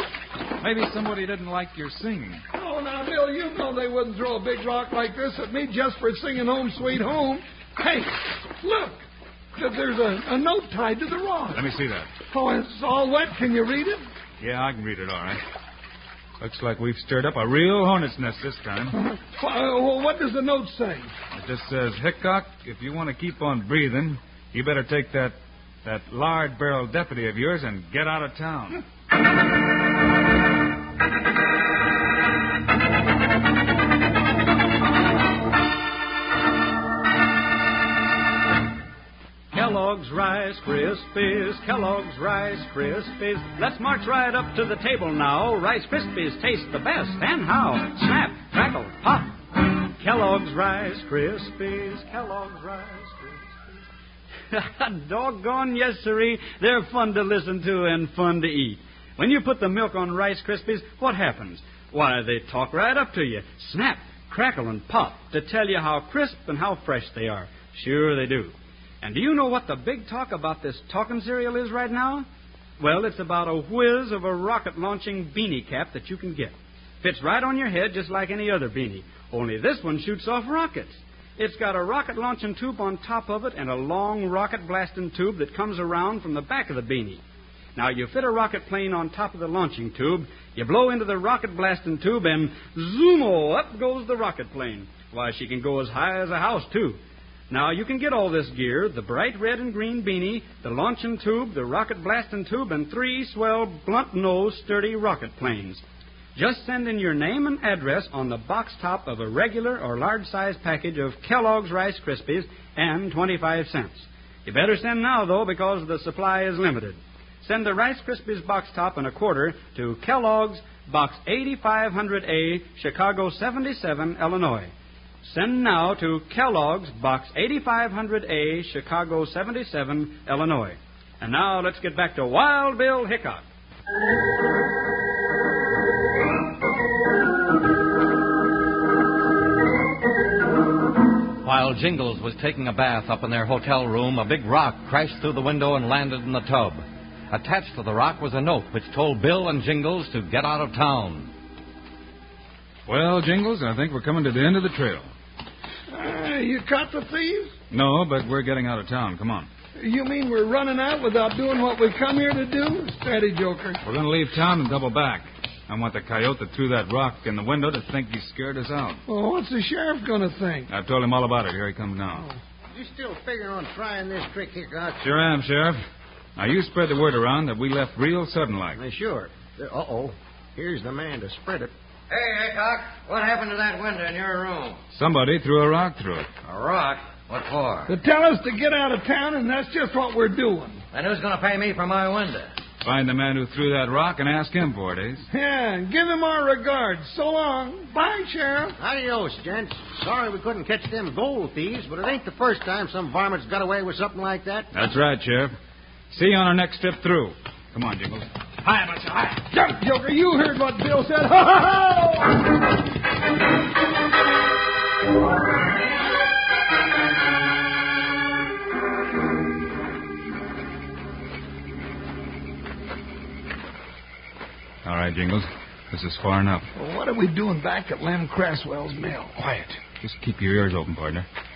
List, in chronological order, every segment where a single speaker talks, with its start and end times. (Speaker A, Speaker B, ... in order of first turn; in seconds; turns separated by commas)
Speaker A: 0.6-2.4, Speaker B: 2.5-9.0, Speaker B: 9.5-11.7, Speaker A: 11.5-12.1, Speaker B: 12.3-14.0, Speaker A: 14.4-15.4, Speaker A: 16.4-18.9, Speaker B: 18.9-21.1, Speaker A: 21.4-28.8, Speaker C: 39.5-49.3, Speaker C: 50.0-53.5, Speaker C: 54.5-72.3, Speaker C: 72.8-87.2, Speaker C: 87.8-105.8, Speaker C: 106.3-124.7, Speaker C: 125.2-133.4, Speaker D: 141.4-151.3, Speaker A: 152.9-155.1, Speaker B: 155.9-157.5, Speaker A: 157.7-159.5, Speaker B: 159.8-163.8, Speaker A: 163.8-169.0, Speaker B: 169.1-170.7, Speaker A: 170.7-172.3, Speaker E: 172.7-175.0, Speaker A: 175.0-175.8, Speaker A: 176.3-178.8, Speaker E: 178.7-181.7, Speaker F: 182.1-184.8, Speaker A: 184.9-186.3, Speaker F: 186.4-187.9, Speaker B: 187.9-190.8, Speaker F: 190.9-192.5, Speaker A: 192.8-195.2, Speaker B: 195.3-198.8, Speaker E: 198.8-204.7, Speaker A: 204.7-205.5, Speaker A: 206.1-209.4, Speaker B: 209.5-212.4, Speaker A: 224.8-226.7, Speaker B: 226.7-229.7, Speaker A: 229.9-231.2